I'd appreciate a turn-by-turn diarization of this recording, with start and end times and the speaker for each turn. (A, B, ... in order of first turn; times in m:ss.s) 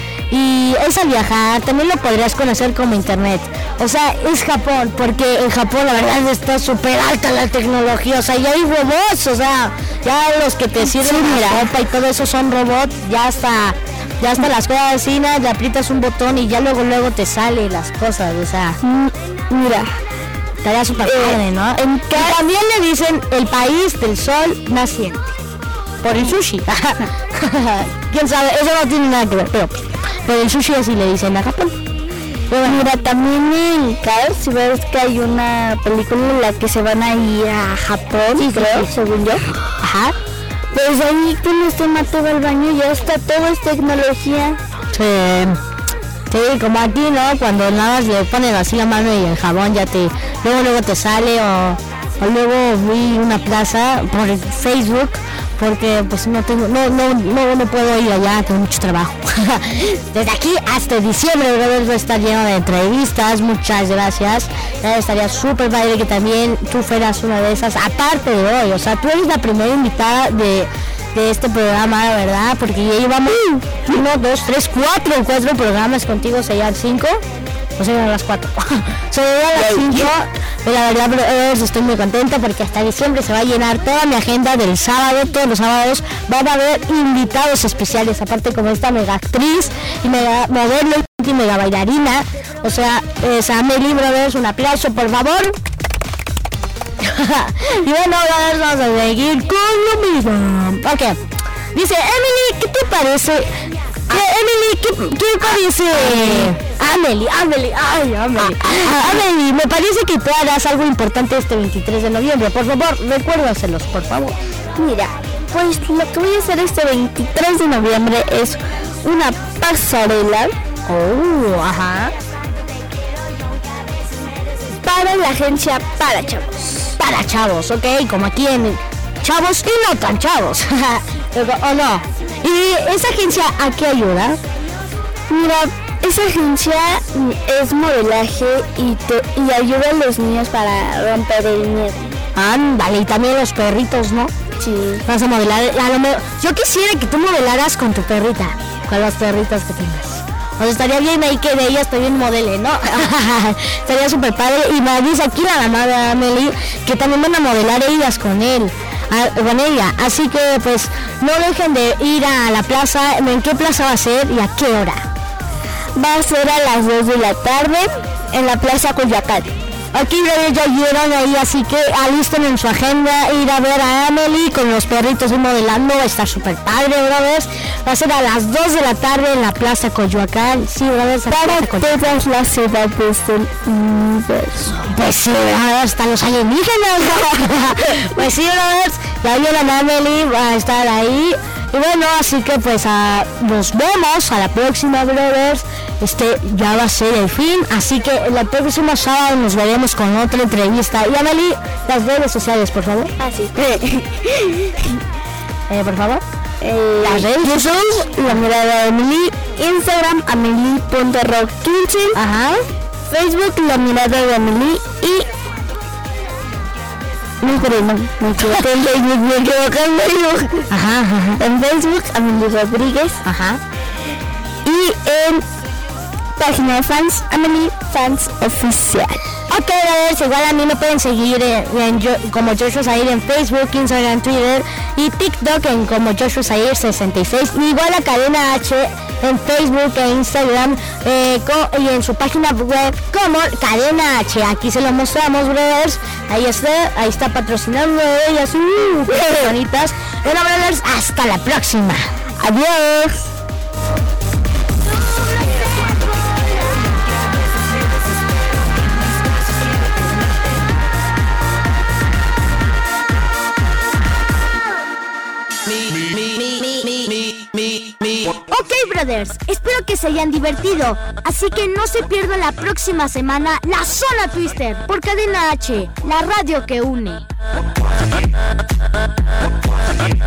0:00.3-0:18.8 A
0:10.8-0:11.7 B
0:18.8-0:20.0 B
0:20.6-0:25.4 A
0:21.0-0:22.4 B
0:26.0-0:31.8 A
0:32.5-0:32.9 A
0:32.6-0:39.5 B
0:38.3-0:38.9 A
0:39.8-0:40.2 A
0:40.7-0:44.6 B
0:44.9-0:45.6 A
0:46.3-1:17.2 A
1:13.3-1:13.6 B
1:17.8-1:35.6 A
1:19.6-1:20.1 B
1:37.0-1:41.2 A
1:41.7-1:43.5 A
1:44.1-1:54.4 A
1:46.0-1:46.5 B
1:48.4-1:49.1 B
1:54.8-2:00.5 B
2:00.8-2:02.1 A
2:04.8-2:06.9 B
2:07.0-2:14.4 A
2:15.3-2:22.1 B
2:22.3-2:24.3 A
2:24.6-2:25.0 B
2:25.1-2:45.1 A
2:45.9-2:49.5 B
2:49.9-3:02.0 A
3:01.3-3:04.9 B
3:04.8-3:23.1 A
3:23.2-3:25.0 B
3:25.7-3:26.2 A
3:26.6-3:32.2 B
3:27.0-3:27.9 A
3:32.1-3:32.6 A
3:33.1-3:35.3 B
3:37.4-3:40.7 B
3:40.7-3:41.4 A
3:41.4-3:43.2 B
3:43.2-3:43.6 A
3:44.6-3:45.4 B
3:46.4-3:49.2 B
3:49.5-4:12.1 A
4:12.4-4:13.3 B
4:28.5-4:37.2 C